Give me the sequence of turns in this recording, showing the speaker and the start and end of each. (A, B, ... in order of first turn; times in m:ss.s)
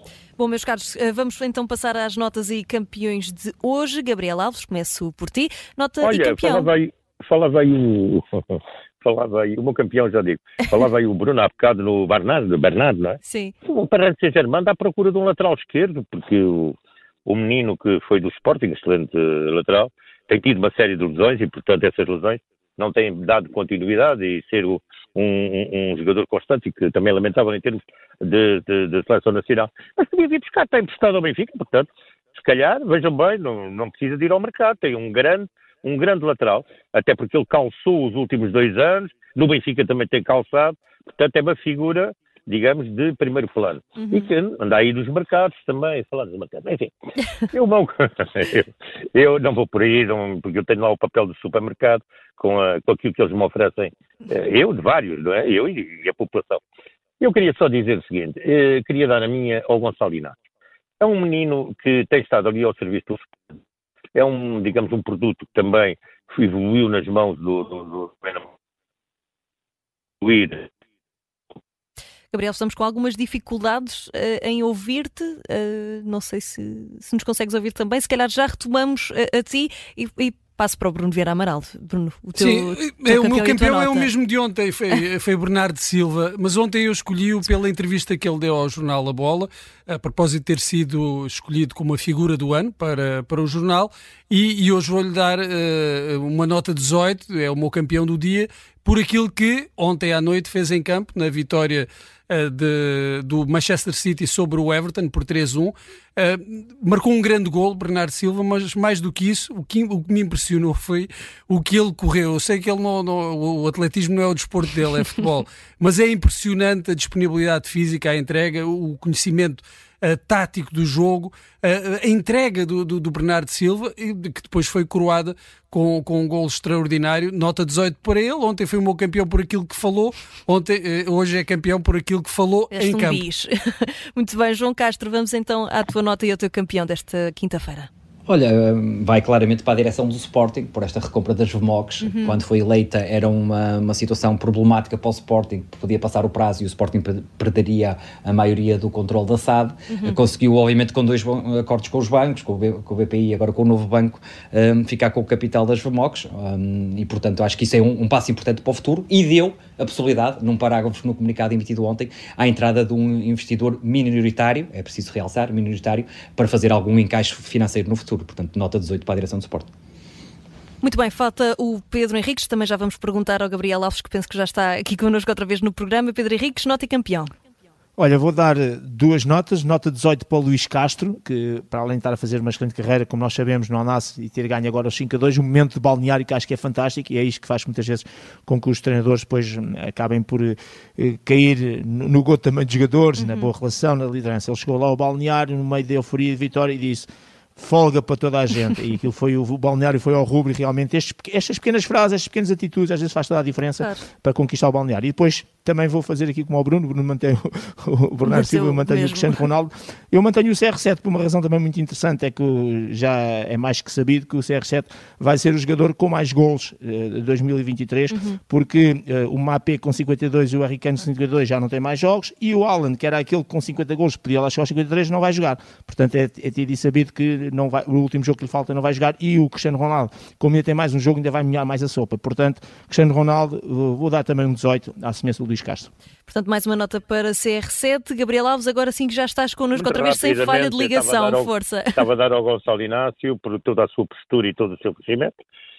0:00.4-0:06.7 A
0:06.0-0:46.9 B
0:13.2-0:13.5 A
0:44.0-0:44.3 A
0:47.5-0:56.6 B
0:57.2-1:00.4 B
1:01.0-1:03.4 B
1:04.1-1:08.5 B
1:10.2-1:10.7 B
1:12.3-1:24.1 A
1:22.4-2:13.2 C
2:12.7-2:17.9 A
2:18.3-2:49.7 D
2:22.0-2:22.4 A
2:29.9-2:30.2 A
2:50.8-2:57.3 A
2:58.0-3:55.9 E
3:13.2-3:13.5 A
3:28.2-3:29.4 A
3:38.1-3:38.4 A
3:56.3-4:02.0 A
3:59.7-4:05.3 B